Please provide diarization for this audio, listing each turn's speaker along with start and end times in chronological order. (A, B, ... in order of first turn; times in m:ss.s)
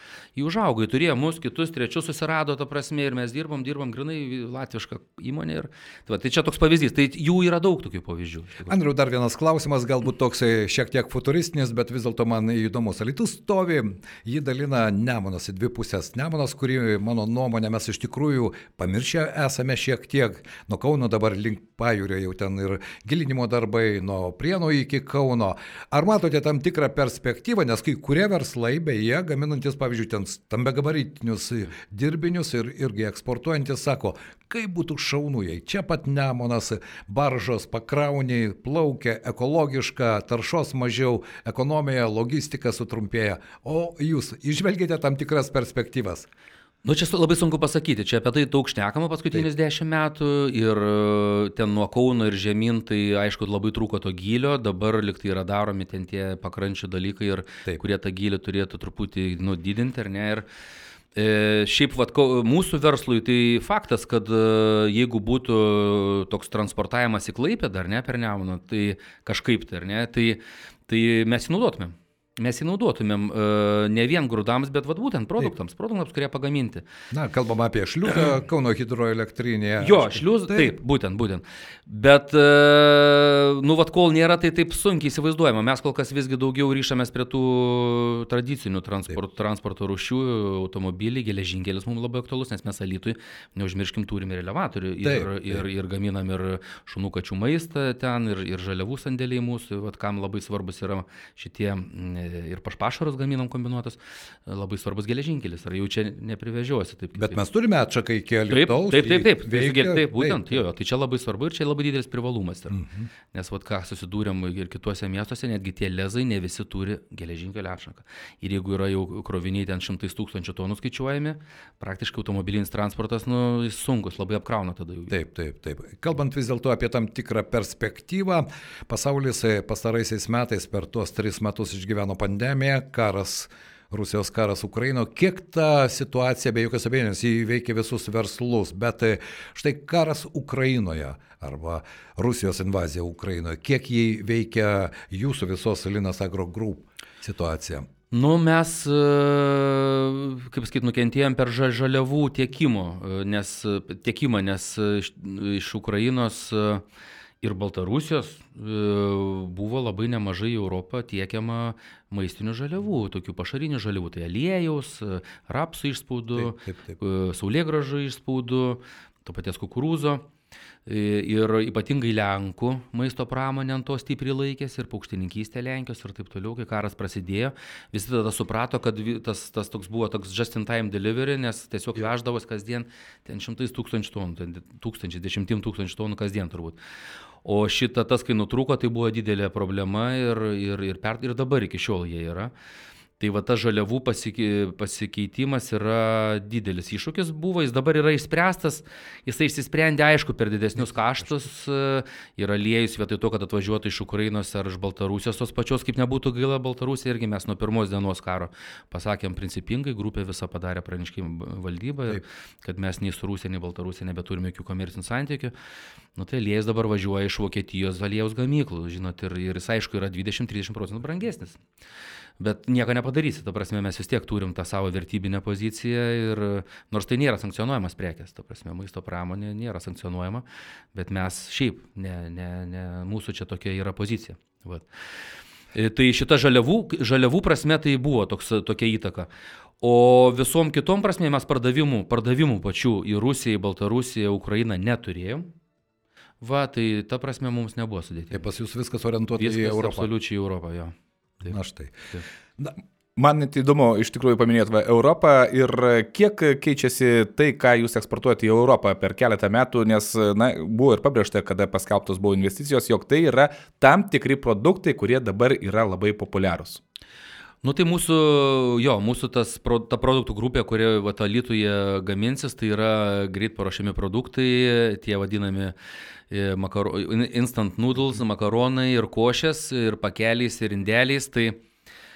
0:00.4-0:08.8 A
0:08.7-0:46.3 B
0:46.8-1:00.4 A
1:01.1-1:16.8 A
1:17.1-1:20.7 B
1:19.8-1:47.4 A
1:35.0-1:35.6 B
1:47.2-1:50.6 B
1:48.5-1:52.8 A
1:52.7-1:53.1 B
1:53.3-2:05.1 A
2:05.1-2:27.9 B
2:28.1-2:36.8 A
2:37.4-2:50.2 A
2:46.3-2:47.0 B
2:50.8-3:06.8 A
3:07.4-3:12.5 A
3:13.2-3:35.5 A
3:36.2-3:41.6 A
3:42.4-3:54.8 A
3:55.7-3:59.3 A
3:59.8-4:05.5 A
4:06.4-4:08.4 A
4:08.3-4:10.1 B
4:09.4-4:11.6 A
4:11.4-4:12.0 B
4:13.2-4:26.8 C
4:27.6-4:35.7 A
4:36.3-4:41.6 A